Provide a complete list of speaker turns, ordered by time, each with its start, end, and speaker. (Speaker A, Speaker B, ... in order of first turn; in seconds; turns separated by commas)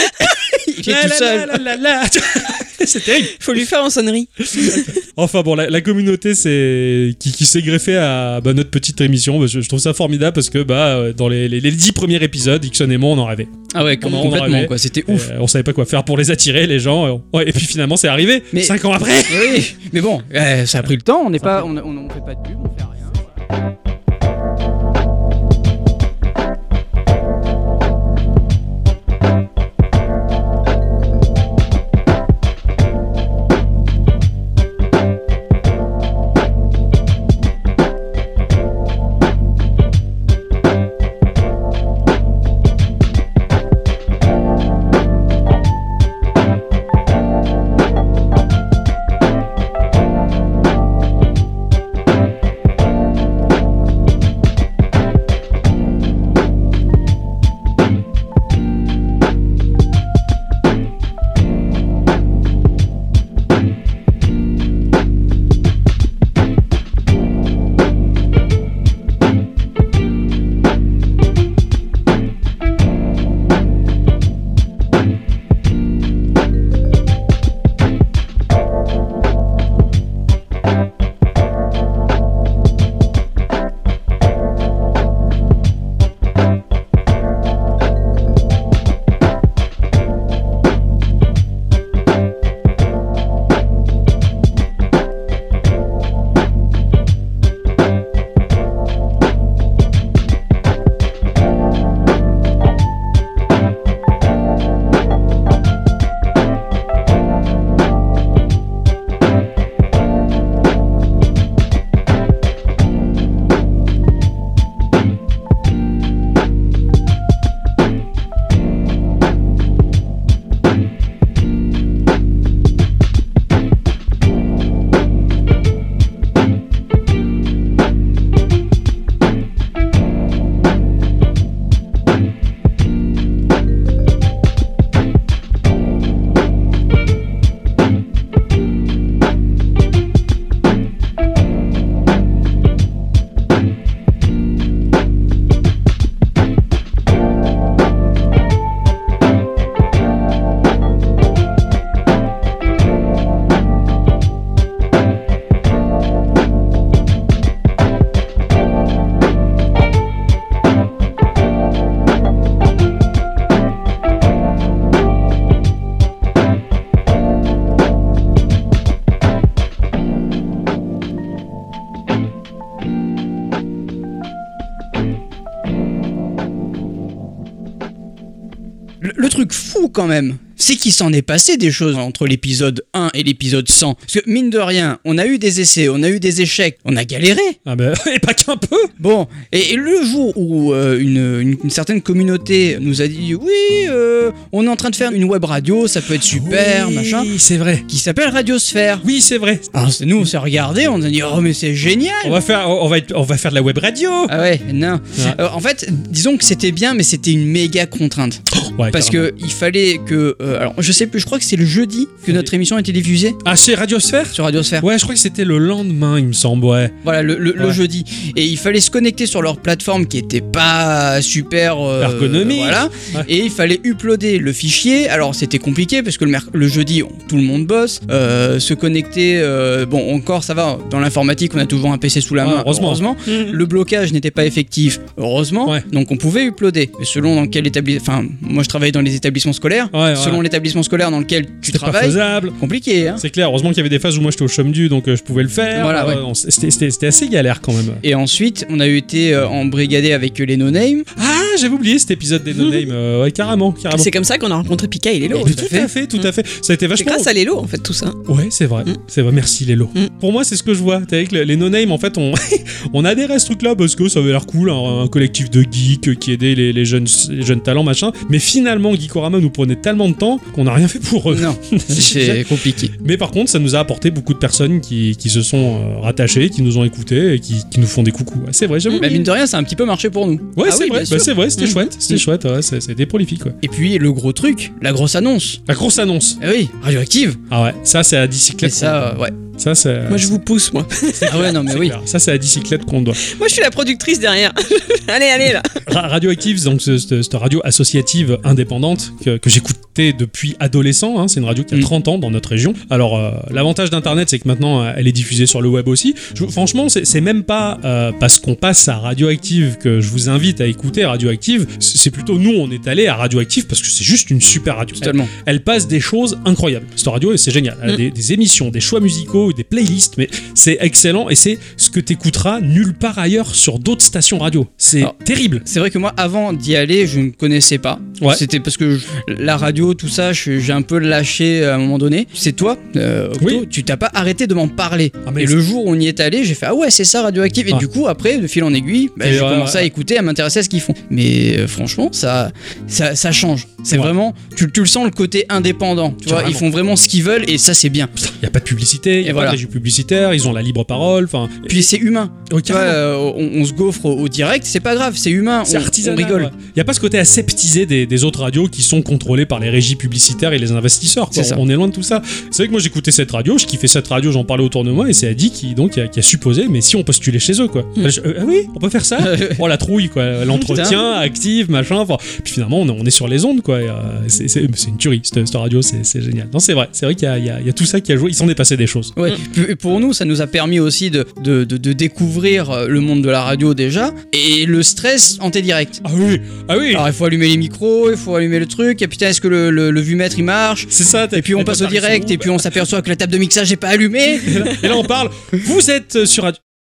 Speaker A: 0.5-1.7, Speaker B: 0.8-3.3, Speaker C: 3.3-4.9, Speaker B: 4.5-19.6, Speaker A: 13.7-15.3, Speaker A: 18.5-18.8, Speaker A: 19.3-23.2, Speaker A: 179.0-187.6, Speaker B: 187.7-188.9, Speaker A: 189.0-197.3, Speaker B: 196.3-197.8, Speaker A: 197.9-199.0, Speaker B: 199.0-199.8, Speaker A: 199.7-202.4, Speaker B: 202.2-204.3, Speaker A: 204.3-213.4, Speaker B: 208.5-209.3, Speaker B: 213.4-216.9, Speaker A: 214.3-214.9, Speaker A: 217.0-243.2, Speaker B: 222.0-223.3, Speaker B: 232.4-233.0, Speaker C: 233.3-233.6, Speaker B: 239.9-240.4, Speaker B: 241.7-242.6, Speaker B: 243.2-248.0, Speaker A: 245.7-246.2, Speaker A: 248.0-251.1, Speaker B: 251.2-254.1, Speaker C: 253.9-256.3, Speaker A: 255.3-255.9, Speaker B: 255.4-257.3, Speaker C: 257.0-258.2, Speaker B: 258.2-272.4, Speaker A: 271.3-272.9, Speaker B: 273.0-279.3, Speaker C: 278.9-279.2, Speaker A: 278.9-281.2, Speaker B: 280.6-283.6, Speaker C: 280.6-281.9, Speaker A: 283.6-285.6, Speaker B: 285.7-286.4, Speaker A: 286.4-287.4, Speaker B: 287.5-290.4, Speaker A: 288.6-289.4, Speaker C: 290.1-291.4, Speaker B: 291.0-293.4, Speaker A: 291.3-291.9, Speaker C: 293.2-295.8, Speaker B: 295.9-325.6, Speaker A: 315.0-315.3, Speaker A: 325.6-348.1, Speaker B: 333.4-333.6, Speaker B: 335.2-335.6, Speaker B: 339.2-339.9, Speaker B: 346.2-346.6, Speaker B: 348.2-351.9, Speaker A: 349.2-349.6, Speaker A: 351.6-356.5, Speaker B: 352.5-353.0, Speaker B: 355.6-379.1, Speaker A: 361.3-361.6, Speaker A: 369.2-369.6, Speaker A: 370.6-371.0, Speaker A: 379.1-386.0, Speaker B: 386.0-387.1, Speaker A: 386.9-394.7, Speaker B: 390.9-392.7, Speaker B: 394.4-396.6